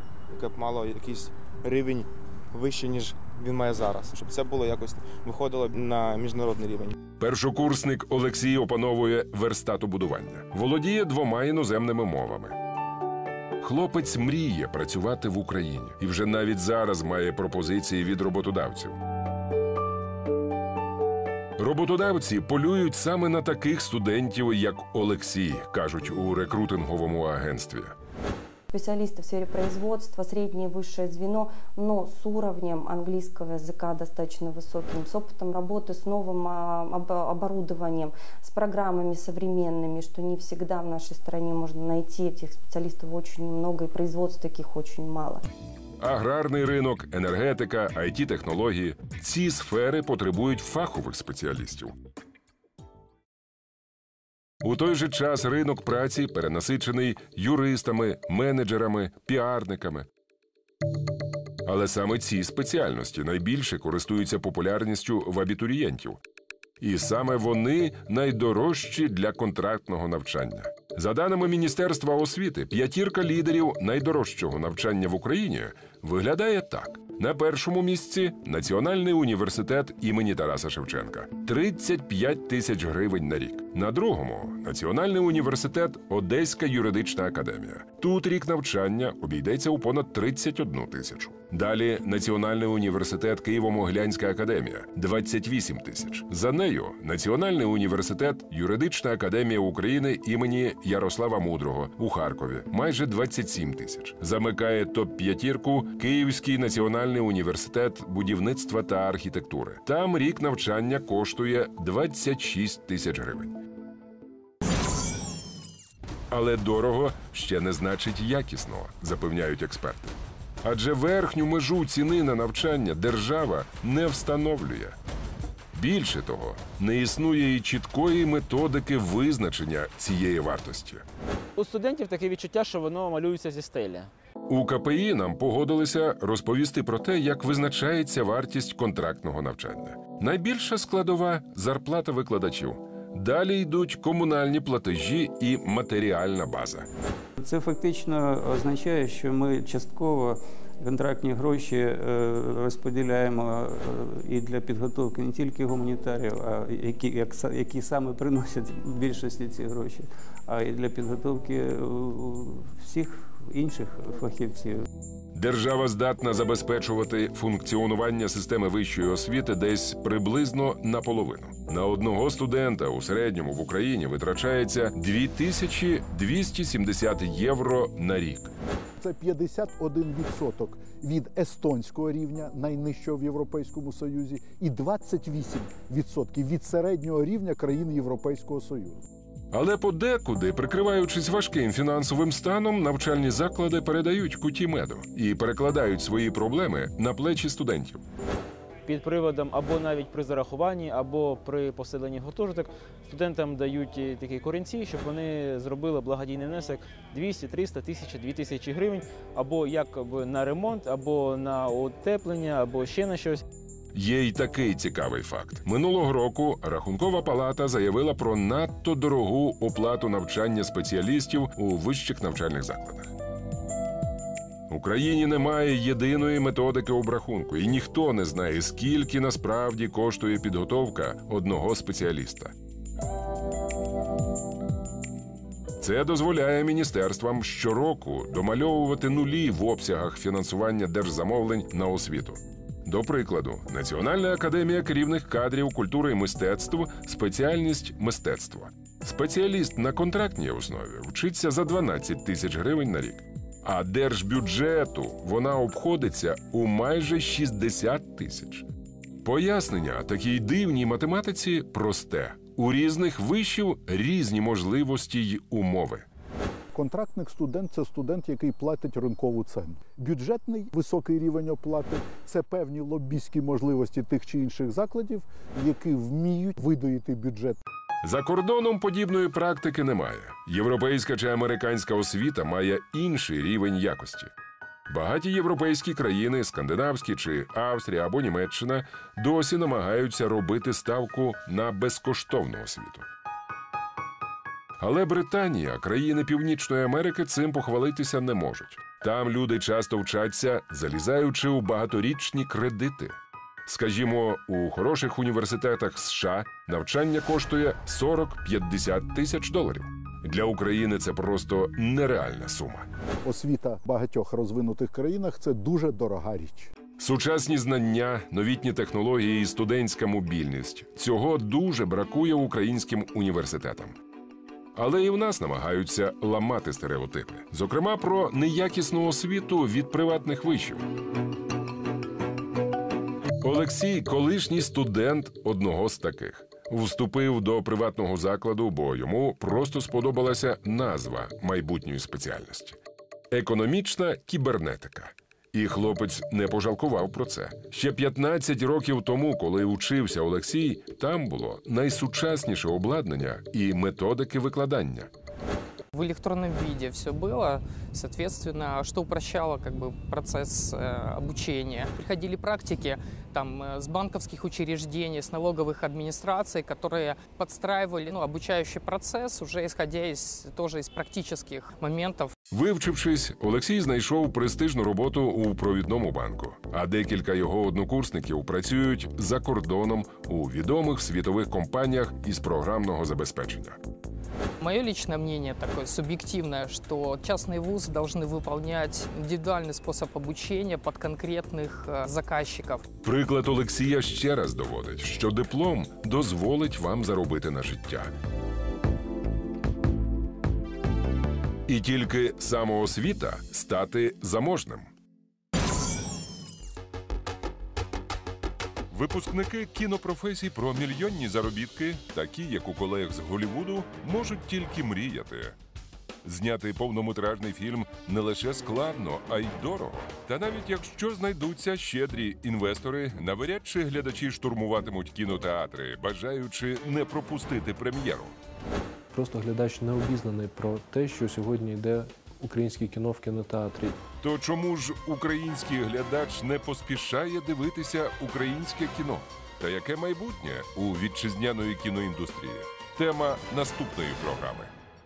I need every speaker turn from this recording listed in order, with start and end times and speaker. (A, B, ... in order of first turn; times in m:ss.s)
0:00.4-0:02.0 A
0:02.6-0:06.9 A
0:07.2-0:12.5 B
0:13.6-0:19.0 B
0:21.6-0:27.9 B
0:28.7-0:45.4 C
0:46.0-0:51.9 B
0:54.6-1:00.1 B
1:01.6-1:06.2 B
1:06.8-1:53.6 B
1:56.3-2:05.0 B
2:05.7-2:11.0 B
2:11.7-2:14.1 D
2:14.5-2:26.9 B
2:27.4-2:44.8 E
2:45.3-2:58.5 B
2:59.0-3:09.0 F
3:09.5-3:18.0 B
3:19.5-3:20.0 D
3:20.7-3:22.0 D
3:25.9-3:29.0 D
3:29.5-3:33.4 D
3:33.9-3:43.1 B
3:44.7-3:52.5 B
3:55.8-4:18.7 B
4:19.2-4:26.0 B
4:26.7-4:37.6 F
4:38.0-4:44.3 B
4:44.9-4:53.0 B
4:54.8-5:03.1 B
5:03.6-5:12.9 B
5:13.2-5:16.7 F
5:17.0-5:24.0 B
5:24.8-5:30.8 B
5:33.4-5:42.8 B
5:43.3-5:55.1 B
5:55.9-6:12.3 G
6:12.5-6:23.8 B
6:24.6-6:32.8 G
6:33.0-6:38.1 B
6:41.7-6:44.9 B
6:48.9-6:55.6 B
6:56.2-7:08.3 B
7:09.1-7:14.0 H
7:14.2-7:24.7 B